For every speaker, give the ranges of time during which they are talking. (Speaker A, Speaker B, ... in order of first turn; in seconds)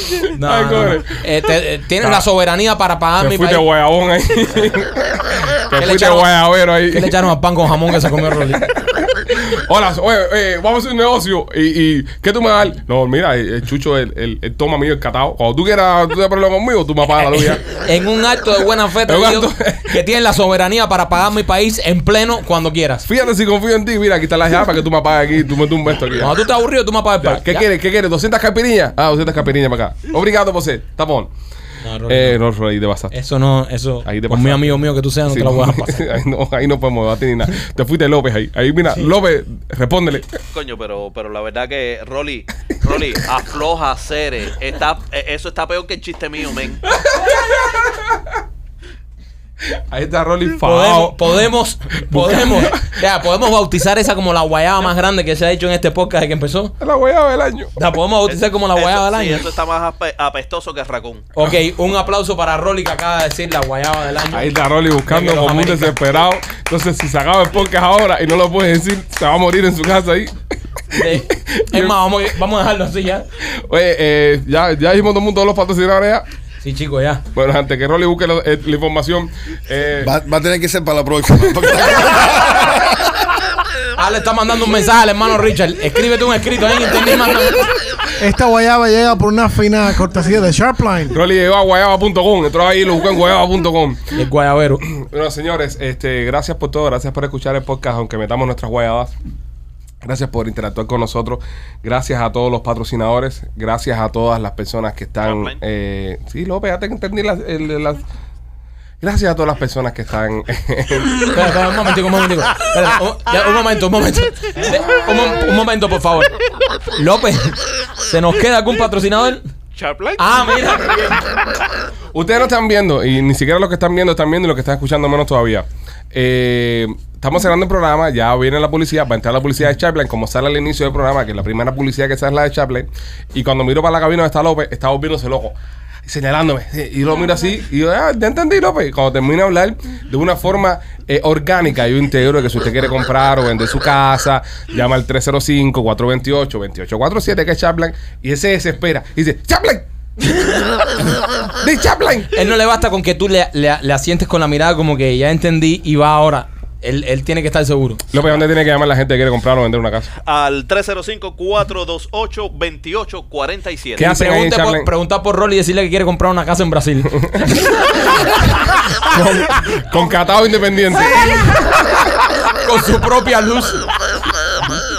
Speaker A: 0.2-3.6, 5.7-6.3, 6.9-8.7, 17.1-23.1, 26.2-27.7, 31.8-32.4, 33.1-36.0, 50.6-56.8, 57.8-59.4, 61.4-64.5, 65.1-66.0, 70.9-73.2, 76.6-77.2, 84.0-87.8, 94.1-94.8, 111.3-116.4, 116.9-119.5, 120.2-121.4, 152.3-158.0, 164.0-167.7, 172.6-173.9
Speaker B: 0.3-1.2, 2.0-2.3, 3.2-7.2, 8.3-17.6, 19.1-20.0, 23.1-26.3, 27.2-31.3, 32.1-33.1, 34.0-40.3, 46.9-48.2, 49.7-51.2, 52.1-52.9, 56.8-57.7, 64.3-70.3, 70.9-72.0, 73.5-76.3, 77.3-80.1, 91.1-94.2, 94.9-99.1, 100.0-108.0, 109.0-111.3, 122.1-149.9, 151.6-152.3, 158.1-160.1, 164.0-164.9, 169.0-171.8
Speaker C: 40.5-46.8, 58.3-61.3, 105.2-105.6, 119.7-120.5, 160.2-164.0
Speaker D: 80.0-83.0
Speaker E: 88.2-91.2